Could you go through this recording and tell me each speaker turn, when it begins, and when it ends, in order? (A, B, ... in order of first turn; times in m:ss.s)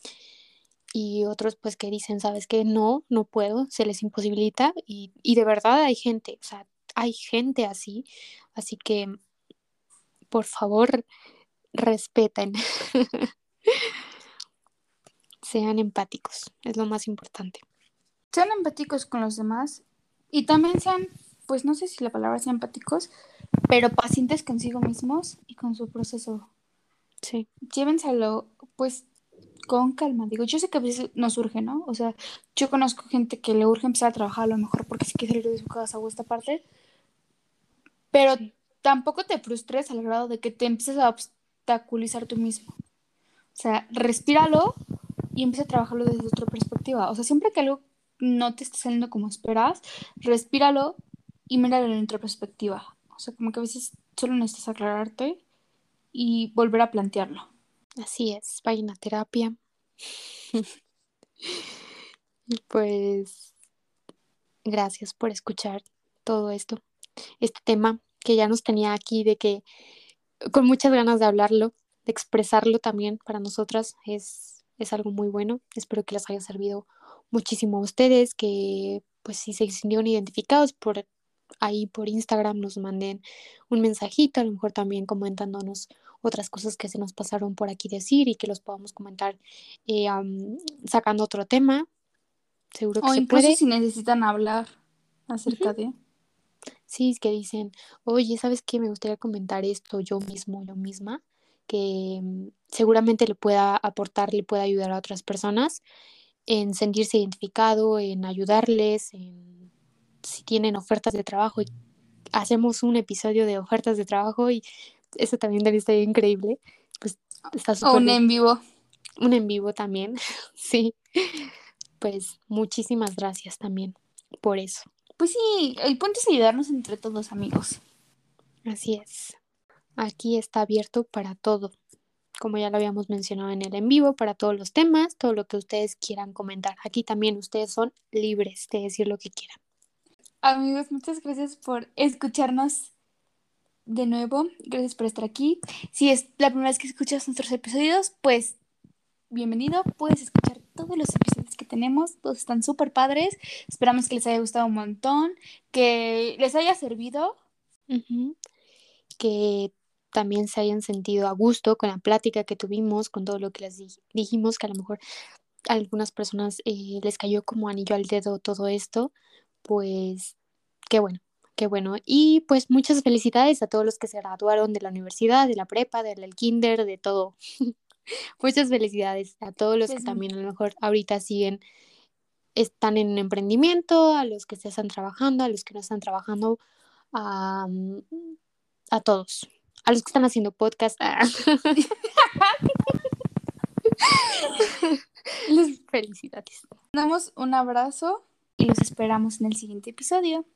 0:00.9-0:09.2 A
0:10.3-0:11.0 A
0:11.7-0:13.9 A
0:15.4-0:17.6 A
0:18.3-0:23.1 B
0:23.7-0:26.5 B
0:27.7-0:29.0 B
0:29.7-0:36.6 B
0:38.1-0:42.7 B
0:43.6-0:44.7 B
0:45.3-0:51.0 B
0:51.5-0:55.4 B
0:56.1-0:57.5 B
0:58.0-0:59.6 A
1:02.5-1:03.4 A
1:04.6-1:06.8 A
1:07.4-1:09.6 A
1:10.5-1:21.1 A
1:21.6-1:31.9 A
1:32.7-1:33.6 A
1:33.0-1:34.7 B
1:35.3-1:35.9 B
1:35.5-1:35.7 A
1:36.9-1:45.8 A
1:46.5-1:49.6 A
1:50.2-1:51.7 A
1:52.3-1:54.6 A
1:55.2-1:58.2 A
1:57.8-1:58.6 B
1:59.2-2:01.5 A
2:02.0-2:04.9 A
2:05.2-2:07.8 B
2:08.6-2:09.4 A
2:10.0-2:11.7 A
2:12.4-2:19.6 A
2:20.4-2:22.9 B
2:23.9-2:28.6 B
2:29.3-2:37.4 B
2:37.9-2:38.4 A
2:39.2-2:45.0 A
2:45.7-2:49.1 A
2:49.6-2:50.3 A
2:50.9-2:57.7 A
2:58.4-3:01.6 A
2:59.9-3:00.2 B
3:02.6-3:06.6 A
3:07.1-3:08.3 A
3:08.9-3:11.8 A
3:12.2-3:12.5 B
3:15.5-3:16.6 A
3:16.9-3:20.4 B